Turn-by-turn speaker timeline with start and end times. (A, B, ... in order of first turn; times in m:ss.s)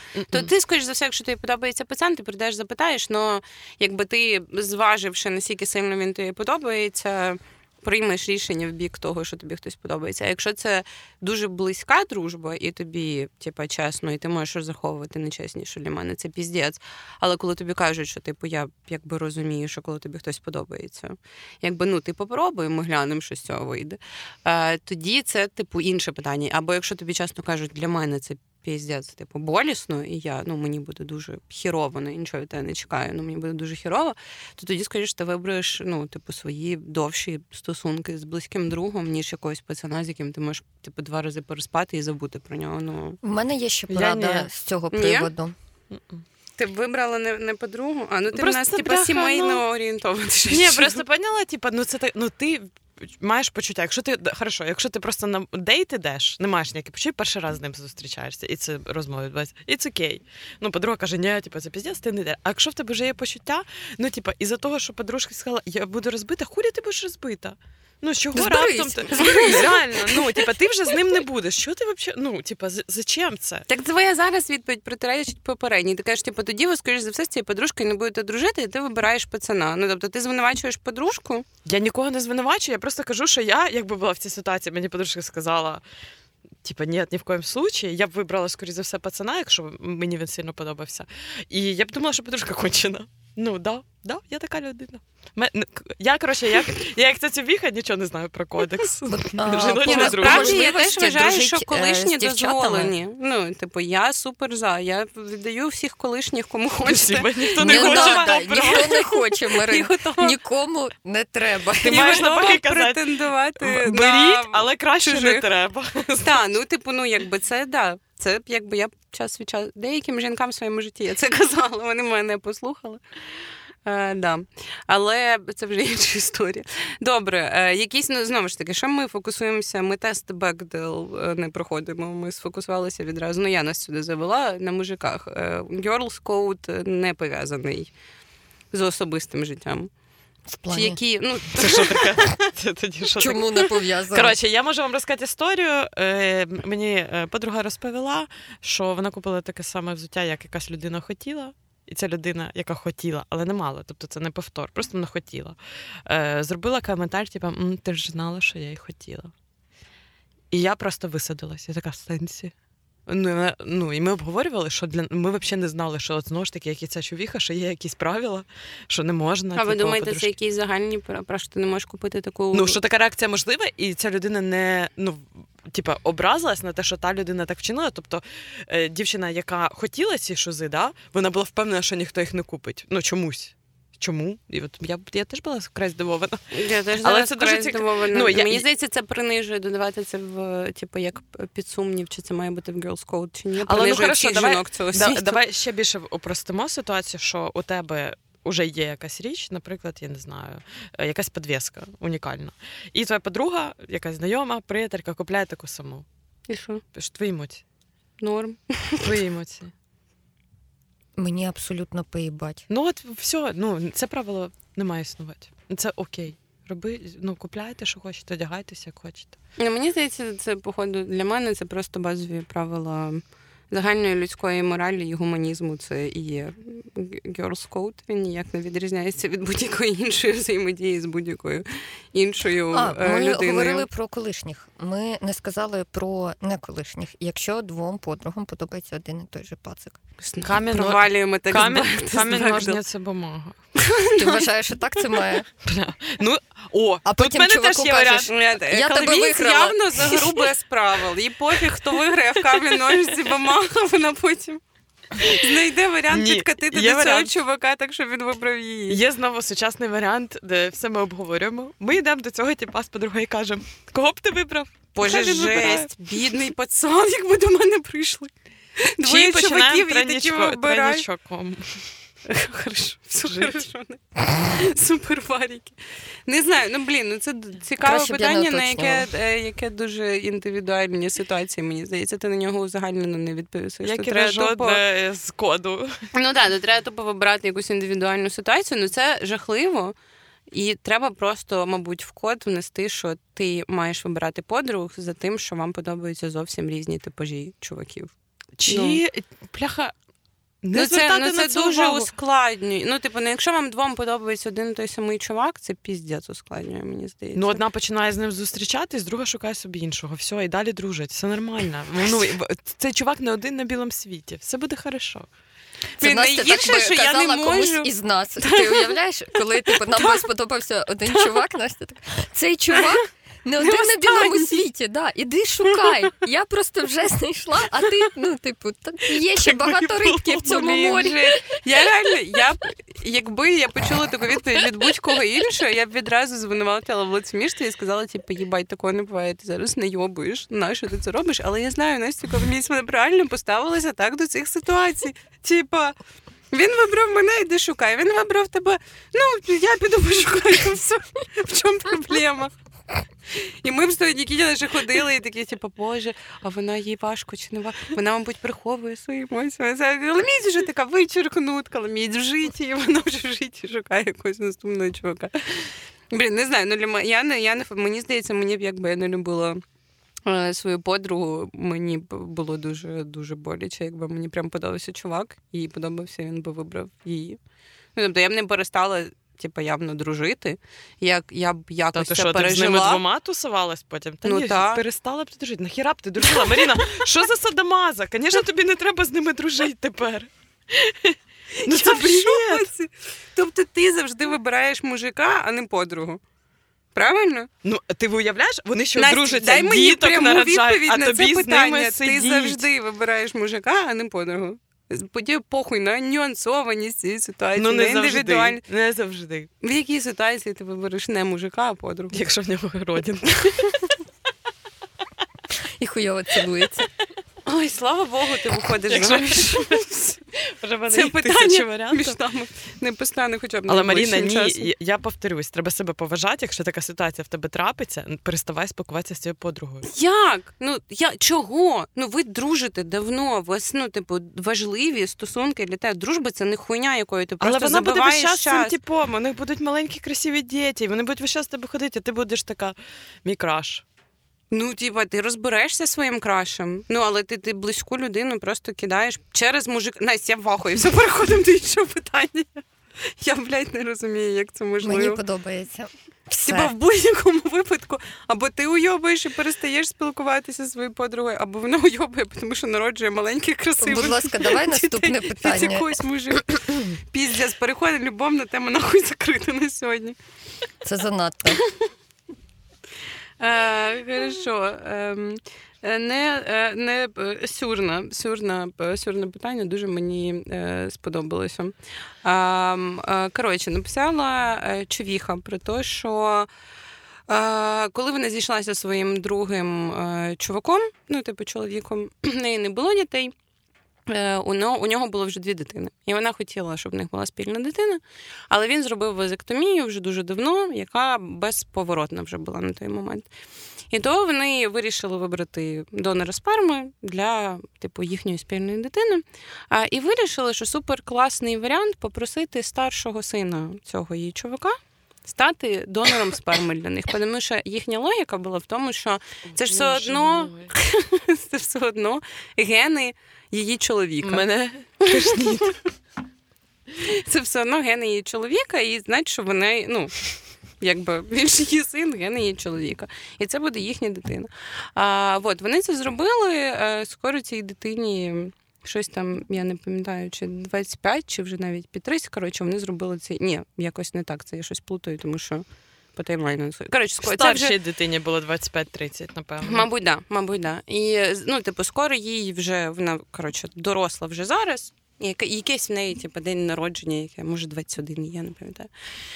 0:00.2-0:00.5 A
0:00.3-0:43.2 B
0:43.2-0:45.5 C
0:43.9-0:44.5 A
0:44.9-0:45.3 B
0:45.9-0:46.2 A
0:46.6-0:51.0 B
0:48.3-0:49.6 A
0:50.5-1:13.6 A
1:08.3-1:10.5 C
1:09.2-1:09.6 B
1:13.7-1:21.4 B
1:21.6-1:25.8 A
1:26.6-1:40.8 A
1:39.1-1:42.9 C
1:39.8-1:50.3 B
1:46.8-1:49.0 A
1:47.6-1:52.3 C
1:51.8-1:56.5 A
1:51.8-1:55.4 B
1:56.2-2:03.0 B
2:03.8-2:17.9 B
2:18.7-2:19.9 B
2:20.5-2:21.0 C
2:20.7-2:22.1 B
2:21.5-2:39.3 A
2:23.2-2:24.4 C
2:40.5-2:42.5 A
2:43.1-2:50.3 A
2:49.5-2:52.8 B
2:52.5-3:08.6 A
3:06.5-3:15.4 B
3:13.6-3:26.0 A
3:26.5-3:26.8 B
3:26.9-3:27.6 A
3:28.2-3:29.1 B
3:29.0-3:29.7 A
3:31.2-3:32.6 C
3:32.7-3:39.3 A
3:39.6-3:53.8 B
3:52.7-4:00.0 C
4:00.2-4:02.8 B
4:00.4-4:03.6 A
4:03.7-4:04.5 B
4:04.2-4:05.5 C
4:05.6-4:08.3 A
4:07.0-4:10.4 C
4:08.3-4:14.6 B
4:15.2-4:15.5 A
4:15.2-4:19.0 B
4:16.1-4:17.3 A
4:18.9-4:25.9 A
4:24.9-4:31.0 B
4:29.0-4:31.9 A
4:32.2-4:44.8 B
4:33.3-4:33.6 A
4:37.8-4:39.1 C
4:43.8-4:46.1 A
4:46.1-4:50.0 B
4:50.5-4:58.1 B
4:58.6-4:59.9 A
4:58.7-4:59.0 B
5:00.6-5:02.1 A
5:00.7-5:07.6 B
5:07.3-5:15.3 A
5:16.0-5:18.9 B
5:16.0-5:31.4 C
5:19.7-5:20.2 B
5:23.6-5:24.5 B
5:29.1-5:31.1 A
5:30.4-5:46.0 B
5:46.5-5:52.5 B
5:53.3-6:09.6 B
6:10.2-6:17.4 B
6:18.0-6:23.0 B
6:21.9-6:32.7 A
6:24.2-6:24.8 B
6:31.6-6:36.2 B
6:36.9-6:37.5 B
6:37.6-6:42.6 A
6:39.0-6:48.6 B
6:47.6-6:49.5 A
6:49.6-6:52.2 B
6:52.1-6:53.9 A
6:55.8-6:56.9 C
6:57.4-7:00.2 B
6:58.9-7:02.2 A
7:00.9-7:04.7 B
7:03.7-7:09.9 A
7:09.9-7:18.7 B
7:17.4-7:23.8 A
7:24.5-7:35.2 B
7:34.8-7:36.7 C
7:36.3-7:50.2 B
7:43.8-7:46.9 C
7:50.8-7:51.6 C
7:53.4-8:06.5 B
8:07.3-8:13.3 B
8:14.1-8:23.3 B
8:23.9-8:44.4 B
8:39.5-8:40.7 A
8:44.2-8:45.8 A
8:45.0-8:45.4 B
8:47.0-8:50.2 B
8:50.8-9:05.6 B
9:06.2-9:07.8 B
9:07.2-9:09.9 A
9:09.6-9:18.9 B